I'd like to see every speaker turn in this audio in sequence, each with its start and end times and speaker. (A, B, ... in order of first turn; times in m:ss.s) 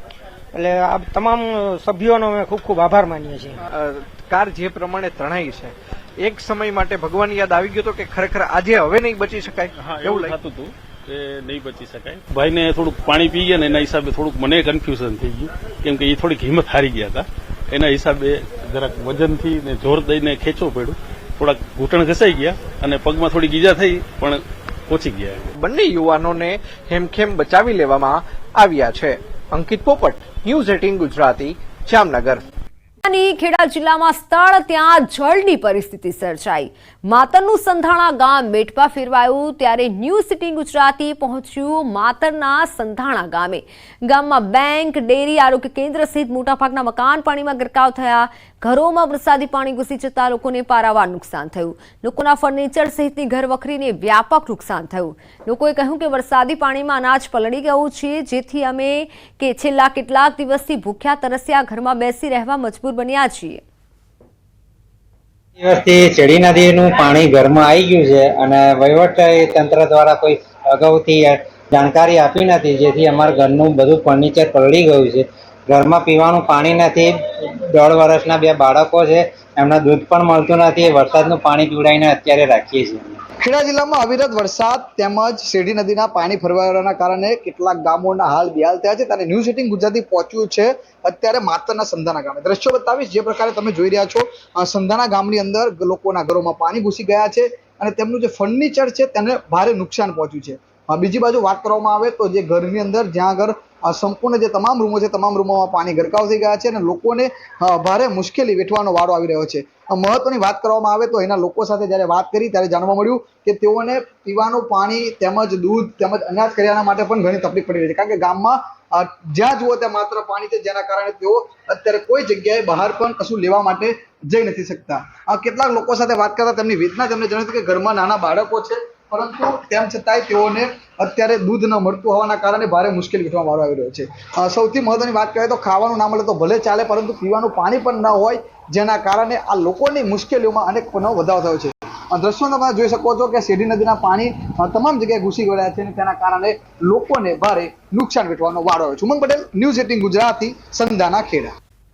0:00.5-0:03.6 A
0:03.7-0:10.4 B
0:09.8-0:25.5 C
0:25.6-0:32.4 B
0:33.0-1:03.6 D
1:05.6-1:17.1 E
1:17.7-1:23.2 E
1:23.4-2:31.5 F